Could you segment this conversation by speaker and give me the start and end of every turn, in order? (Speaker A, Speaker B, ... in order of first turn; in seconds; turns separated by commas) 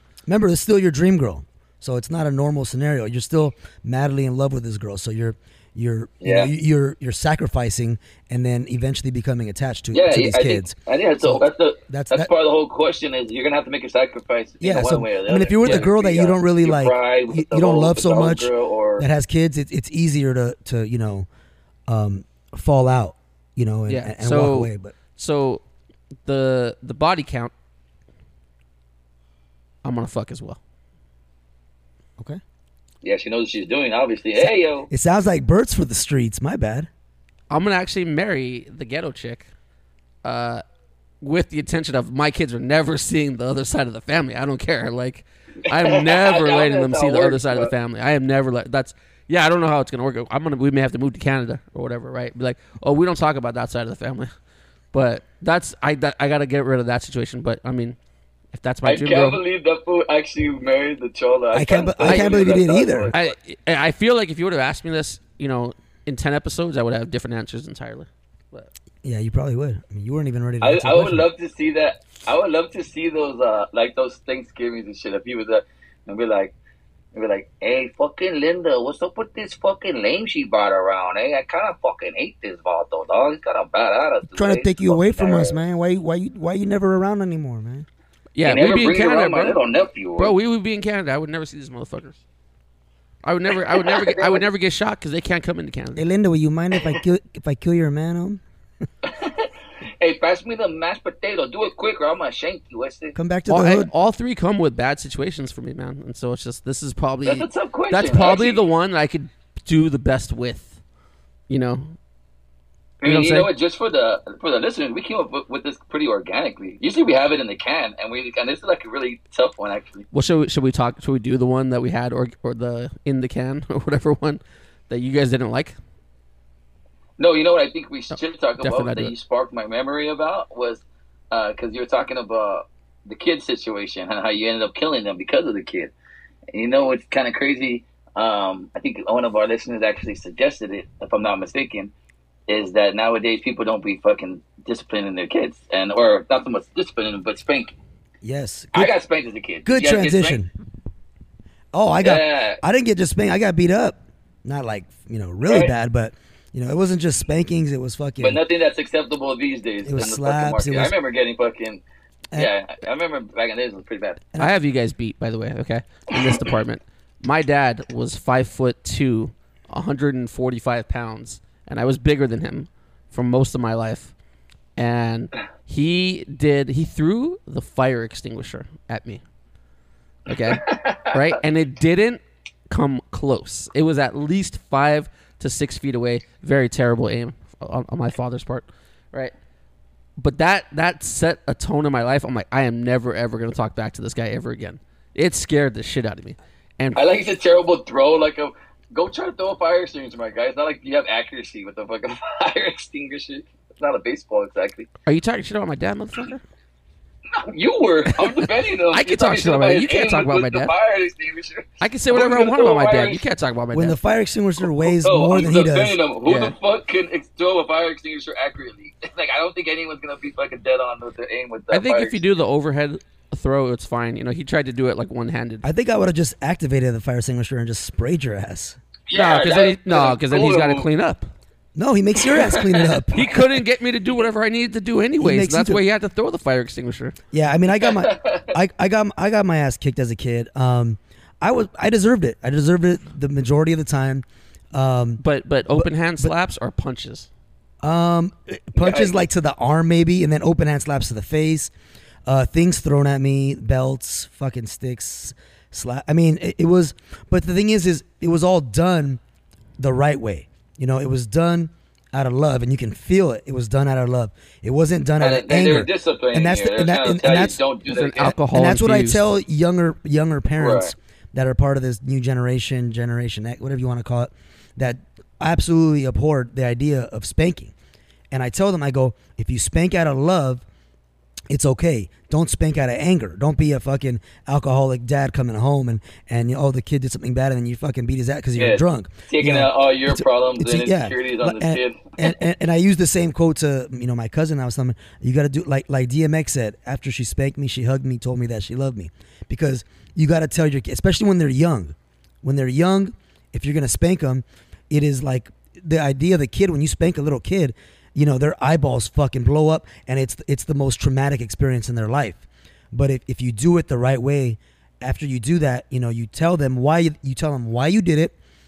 Speaker A: 0.3-12.3, Speaker B: 6.2-6.5, Speaker B: 9.9-19.1, Speaker A: 14.6-21.3, Speaker A: 21.9-24.9, Speaker C: 23.9-25.6, Speaker C: 26.2-27.5, Speaker C: 29.8-30.6, Speaker B: 33.0-34.9, Speaker A: 34.4-36.9, Speaker C: 37.5-39.5, Speaker C: 40.2-40.6, Speaker C: 41.2-54.3, Speaker B: 45.7-47.7, Speaker C: 54.9-58.0, Speaker C: 58.5-59.4, Speaker B: 58.8-63.3, Speaker A: 61.5-63.1, Speaker C: 62.0-62.3, Speaker C: 63.1-68.7, Speaker A: 69.0-71.3, Speaker B: 70.6-76.5, Speaker B: 77.1-85.6, Speaker A: 84.3-87.9, Speaker C: 88.3-89.6, Speaker B: 88.4-90.3, Speaker C: 90.2-92.2, Speaker C: 93.2-96.0, Speaker B: 93.7-94.4, Speaker A: 96.0-98.4, Speaker B: 99.0-103.2, Speaker A: 103.1-103.9, Speaker C: 103.5-110.8, Speaker B: 107.2-108.6, Speaker C: 111.5-112.0, Speaker B: 113.0-120.0, Speaker C: 113.0-113.5, Speaker C: 120.1-125.8, Speaker B: 127.2-135.9, Speaker C: 128.6-129.1, Speaker B: 136.5-141.9, Speaker B: 142.5-147.7, Speaker A: 148.2-148.9, Speaker B: 148.7-150.4, Speaker A: 149.6-150.5, Speaker A: 151.7-158.4, Speaker B: 152.0-152.6, Speaker B: 155.4-155.7, Speaker B: 158.2-161.8, Speaker A: 159.8-160.9, Speaker B: 162.3-164.2, Speaker C: 164.4-174.1, Speaker C: 174.8-179.2, Speaker C: 180.3-189.3, Speaker B: 180.5-181.1, Speaker C: 190.2-197.1, Speaker B: 196.9-204.9, Speaker C: 205.1-206.4, Speaker B: 207.4-213.2, Speaker C: 208.2-210.7, Speaker C: 211.8-214.0, Speaker A: 213.7-216.0, Speaker B: 214.8-222.2, Speaker C: 216.2-216.5, Speaker C: 221.7-225.6, Speaker A: 225.6-228.8, Speaker B: 229.1-230.9, Speaker C: 229.1-231.3, Speaker A: 231.7-233.3, Speaker B: 232.3-233.2, Speaker C: 233.1-237.2, Speaker A: 235.2-235.8, Speaker A: 237.3-246.3, Speaker B: 237.9-238.4, Speaker C: 245.2-247.3, Speaker A: 247.8-251.7, Speaker B: 248.8-249.1, Speaker A: 252.2-259.2, Speaker A: 259.8-267.6, Speaker B: 265.2-268.4, Speaker C: 267.9-269.2, Speaker A: 268.2-277.7, Speaker B: 270.6-270.9, Speaker A: 278.3-280.6, Speaker A: 281.5-318.3, Speaker B: 288.6-292.3